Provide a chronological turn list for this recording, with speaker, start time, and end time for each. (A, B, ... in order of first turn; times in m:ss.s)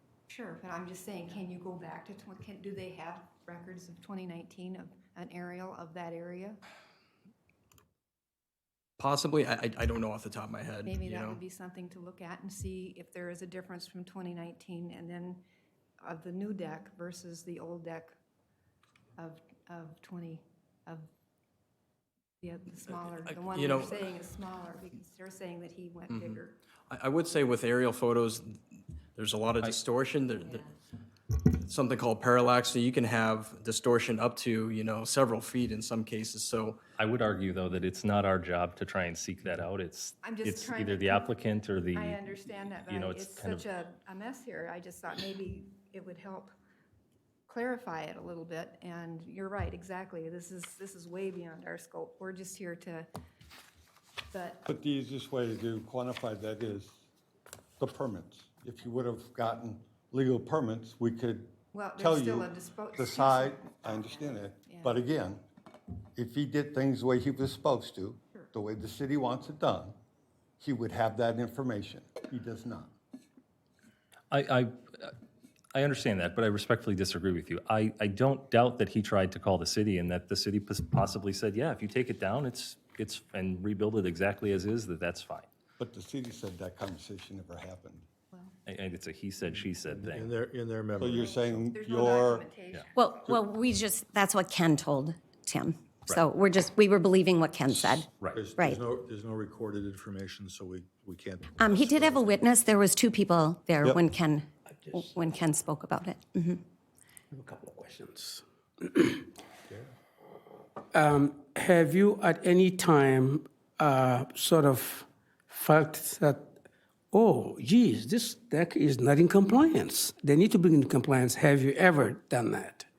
0:00.3-0:06.6 A
0:09.0-0:11.4 B
0:10.8-0:15.4 A
0:16.0-0:18.2 A
0:19.2-0:21.1 A
0:22.4-0:26.6 A
0:23.3-0:24.0 B
0:26.1-0:26.4 B
0:26.9-0:28.6 B
0:29.2-0:30.7 B
0:31.4-0:36.8 B
0:37.0-0:42.2 C
0:40.2-0:41.4 A
0:41.9-0:46.5 A
0:42.9-0:43.6 C
0:47.5-0:53.1 A
0:54.3-0:54.6 A
0:54.7-0:57.0 D
0:57.8-1:05.4 D
1:01.7-1:05.0 A
1:06.2-1:09.9 D
1:10.6-1:12.9 D
1:14.3-1:15.1 C
1:15.7-1:25.5 C
1:25.8-1:28.0 D
1:28.6-1:30.4 C
1:29.8-1:31.7 E
1:31.0-1:32.5 D
1:31.7-1:33.1 A
1:33.0-1:38.8 F
1:38.2-1:42.4 E
1:41.6-1:46.6 F
1:47.3-1:49.3 G
1:50.9-1:56.5 G
1:57.1-2:02.8 G